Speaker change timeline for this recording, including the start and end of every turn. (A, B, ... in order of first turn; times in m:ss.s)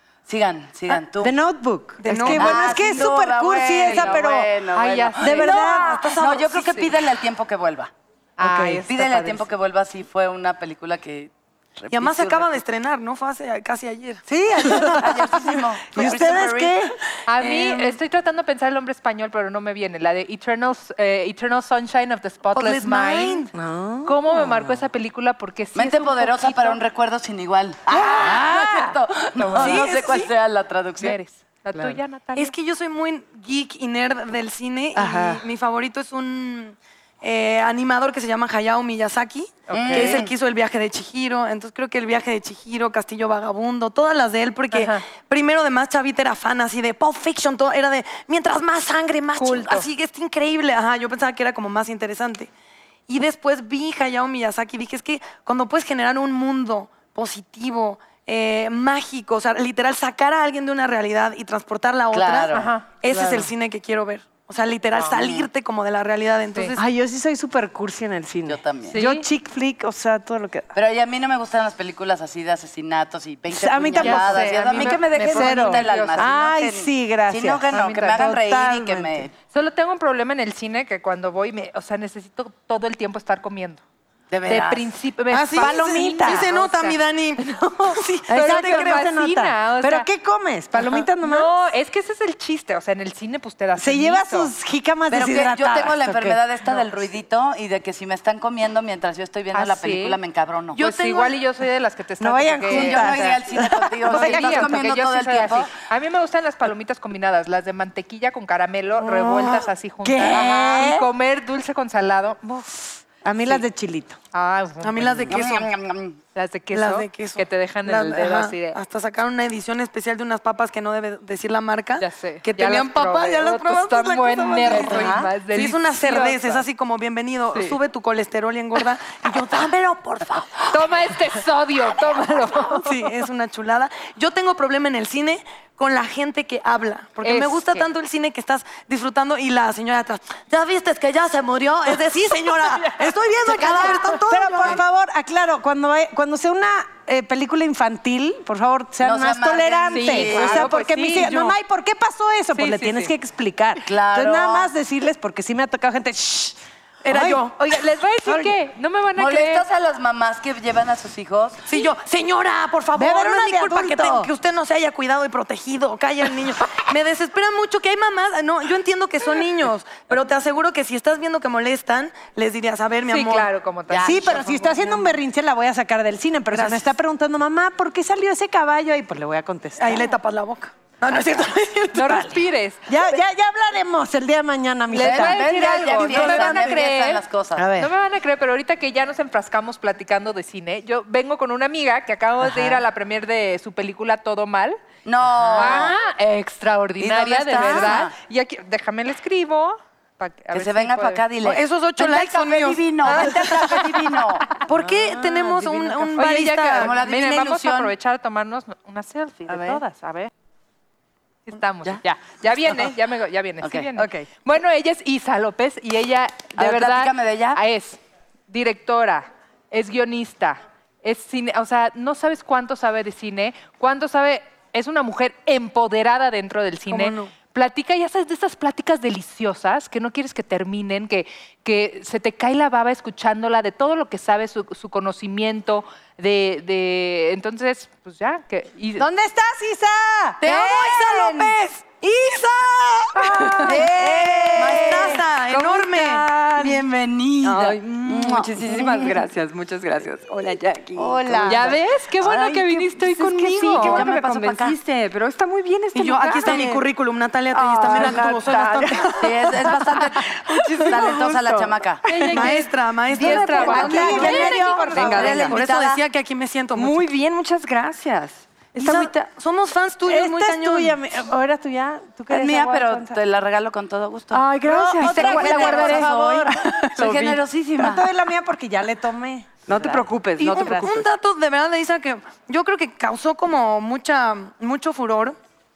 0:00.3-0:01.3 A
0:01.2-0:04.6 B
0:02.0-0:02.8 C
0:02.3-0:07.9 A
0:03.8-0:04.2 D
0:04.7-0:05.8 D
0:05.2-0:06.2 B
0:05.5-0:06.9 C
0:08.4-0:09.5 D
0:08.4-0:08.8 B
0:08.6-0:12.6 A
0:11.9-0:14.8 C
0:14.3-0:17.0 B
0:14.6-0:16.8 A
0:17.3-0:23.5 D
0:17.5-0:17.8 C
0:22.5-0:23.5 C
0:23.5-0:24.7 B
0:24.0-0:26.8 D
0:25.7-0:31.2 A
0:28.0-0:29.0 B
0:29.4-0:30.0 D
0:29.6-0:30.3 C
0:31.0-0:32.5 D
0:32.3-0:52.5 C
0:35.0-0:35.4 B
0:39.7-0:40.2 D
0:39.7-0:40.3 A
0:44.7-0:45.0 D
0:49.4-0:49.9 D
0:53.1-1:06.8 C
1:02.1-1:02.7 A
1:02.5-1:02.9 D
1:05.1-1:05.5 A
1:06.8-1:10.7 B
1:08.5-1:09.0 A
1:08.9-1:09.2 D
1:10.7-1:19.3 A
1:13.5-1:19.2 B
1:14.0-1:16.2 D
1:17.7-1:18.4 D
1:19.5-1:23.8 D
1:24.3-1:24.9 A
1:24.4-1:30.1 D
1:25.3-1:26.5 B
1:25.4-1:29.1 C
1:28.3-1:31.5 B
1:30.7-1:34.5 D
1:33.8-1:36.4 B
1:35.1-1:40.8 A
1:39.5-1:40.2 D
1:40.7-1:43.4 D
1:42.2-1:44.8 B
1:42.7-1:45.7 A
1:44.0-1:53.0 D
1:49.0-1:51.1 B
1:53.2-1:54.2 B
1:54.3-1:55.3 D
1:54.8-1:55.7 C
1:55.3-1:56.2 A
1:56.3-1:58.8 D
1:56.7-2:11.2 C
2:02.0-2:06.6 D
2:03.8-2:05.4 B
2:07.5-2:07.8 D
2:10.7-2:13.1 D
2:12.6-2:24.8 C
2:17.2-2:17.9 D
2:23.4-2:37.5 B
2:29.0-2:30.7 A
2:29.9-2:31.6 D
2:32.5-2:33.1 D
2:33.8-2:34.7 A
2:37.1-2:37.5 C
2:37.1-2:39.6 D
2:39.2-2:41.6 A
2:41.6-2:53.5 C
2:42.9-2:44.3 B
2:53.1-2:55.2 D
2:53.9-2:54.4 A
2:54.0-3:00.1 B
2:56.5-2:56.9 C
2:59.8-3:02.4 C
3:01.9-3:02.9 D
3:02.9-3:06.7 B
3:04.9-3:14.8 D
3:04.9-3:07.7 A
3:07.6-3:07.9 B
3:12.5-3:12.8 B
3:15.0-3:15.9 A
3:15.5-3:21.2 D
3:17.0-3:18.1 A
3:20.5-3:24.6 A
3:21.4-3:23.8 C
3:23.0-3:23.7 D
3:24.6-3:27.0 C
3:24.7-3:25.2 B
3:25.2-3:30.3 D
3:26.8-3:27.9 A
3:29.5-3:29.8 B
3:31.5-3:59.1 D
3:33.6-3:33.9 A
3:34.0-3:34.3 B
3:36.6-3:37.6 A
3:46.9-3:47.3 C
3:59.0-4:00.4 B
4:00.4-4:01.5 A
4:00.4-4:02.4 C
4:01.0-4:01.5 B
4:02.0-4:05.2 B
4:03.0-4:06.3 C
4:03.6-4:05.2 A
4:05.5-4:06.2 E
4:06.4-4:06.8 B
4:06.5-4:09.2 A
4:07.4-4:16.8 E
4:11.0-4:11.8 A
4:11.4-4:14.1 D
4:13.8-4:14.8 A
4:15.9-4:19.3 C
4:17.5-4:18.5 E
4:17.9-4:18.8 D
4:18.0-4:18.8 B
4:19.2-4:22.0 A
4:19.2-4:19.7 E
4:20.6-4:21.6 C
4:20.6-4:22.5 B
4:22.0-4:25.3 D
4:22.2-4:27.1 C
4:23.1-4:25.6 E
4:23.4-4:26.0 A
4:23.6-4:25.3 B
4:26.8-4:29.3 E
4:28.8-4:31.0 C
4:30.0-4:33.2 B
4:32.3-4:38.0 A
4:34.3-4:37.3 E
4:34.3-4:36.6 B
4:35.4-4:35.8 C
4:37.8-4:40.1 B
4:39.7-4:41.1 E
4:40.4-4:45.4 C